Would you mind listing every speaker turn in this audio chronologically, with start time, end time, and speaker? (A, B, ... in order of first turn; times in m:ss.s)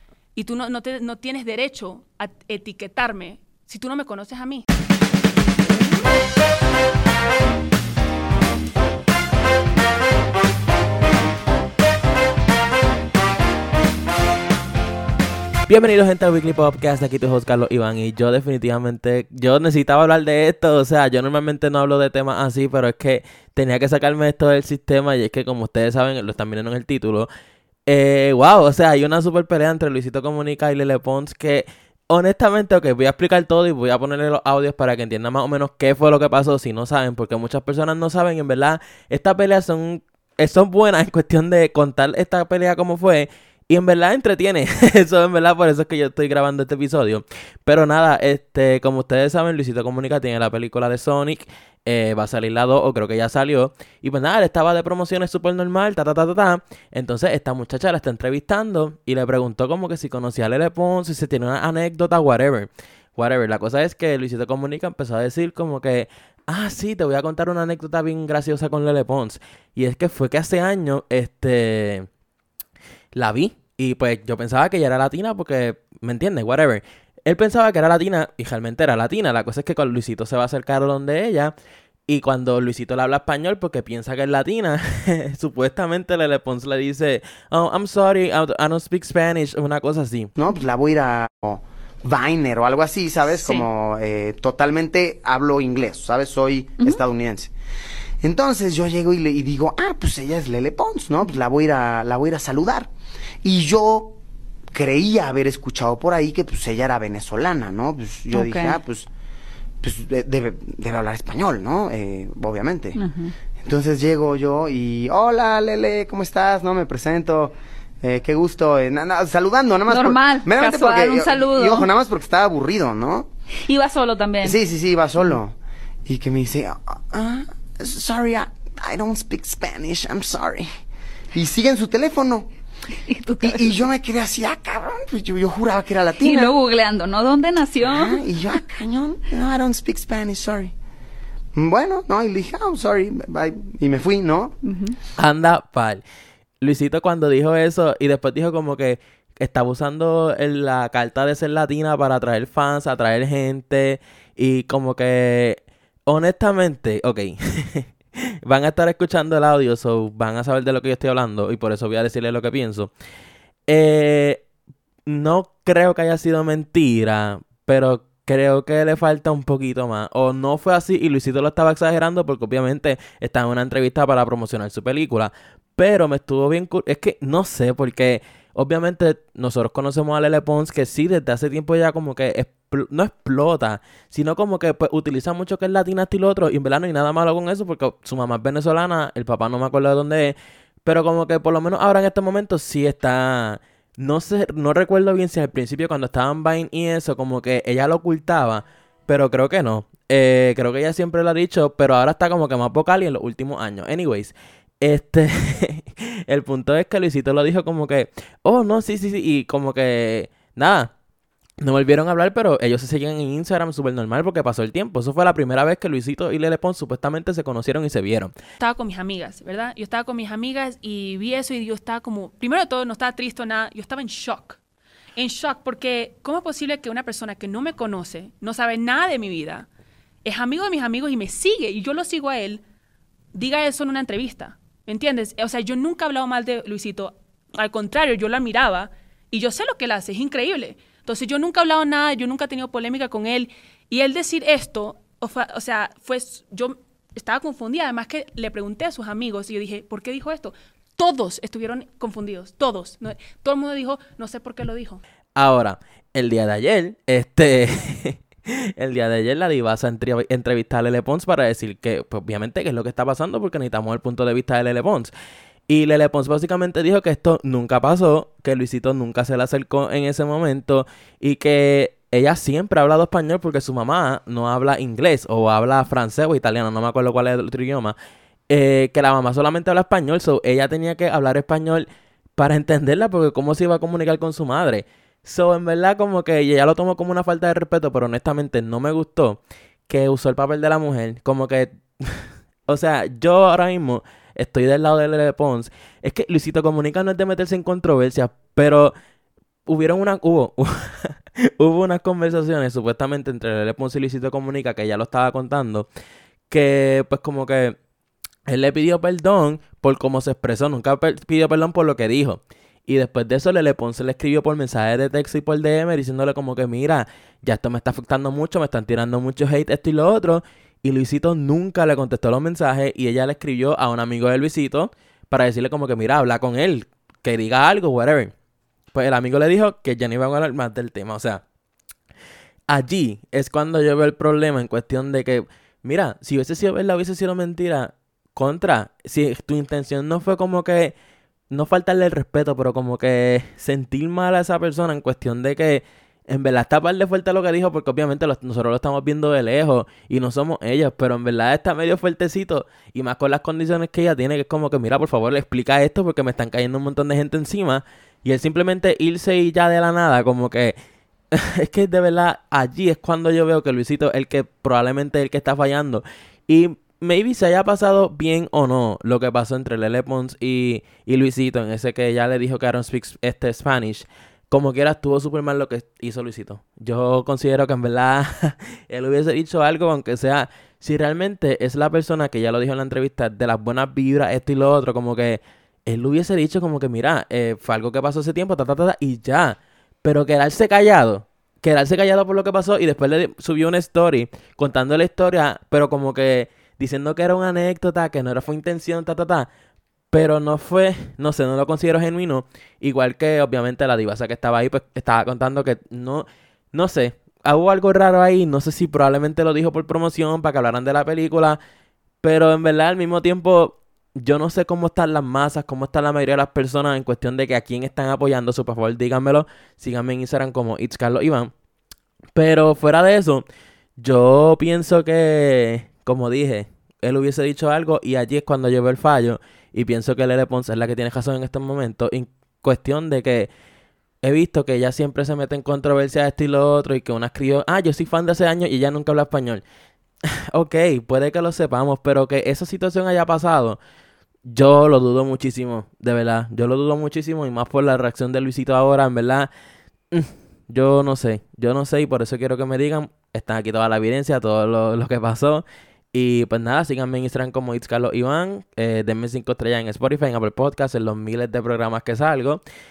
0:00.4-0:04.6 A
0:15.7-0:27.3 B
0:27.9-1:12.1 B
1:13.1-1:21.5 B
1:22.1-1:30.3 B
1:30.4-1:37.5 C
1:38.2-1:42.9 C
1:43.4-1:44.2 C
1:44.7-1:49.1 C
1:48.3-1:48.8 D
1:49.8-1:53.0 C
1:53.0-1:53.3 D
1:53.6-2:03.3 C
1:59.9-2:01.9 D
2:03.6-2:04.6 D
2:04.4-2:05.6 C
2:06.1-2:10.7 C
2:11.3-2:12.5 C
2:12.9-2:13.7 D
2:13.4-2:16.6 C
2:16.2-2:18.2 D
2:17.8-2:20.7 C
2:21.6-2:24.6 C
2:24.6-2:25.0 D
2:25.2-2:26.0 B
2:26.6-2:42.9 B
2:43.7-2:44.4 B
2:45.1-3:30.9 B
3:31.6-3:38.3 B
3:38.6-3:44.6 A
3:45.2-3:49.7 A
3:50.2-3:52.6 A
3:53.3-4:15.0 A
4:15.4-4:25.1 B
4:25.7-4:38.0 B
4:38.5-4:58.9 B
4:59.7-5:05.9 B
5:06.5-5:07.8 B
5:08.5-5:28.3 B
5:28.9-5:31.4 B
5:32.7-5:41.0 B
5:41.5-6:00.8 B
6:01.3-6:39.5 B
6:40.1-6:51.6 B
6:52.2-7:01.5 B
7:02.4-7:03.4 B
7:04.0-7:13.5 B
7:14.2-7:19.6 B
7:20.3-7:23.8 B
7:24.5-7:29.5 B
7:30.1-7:42.6 B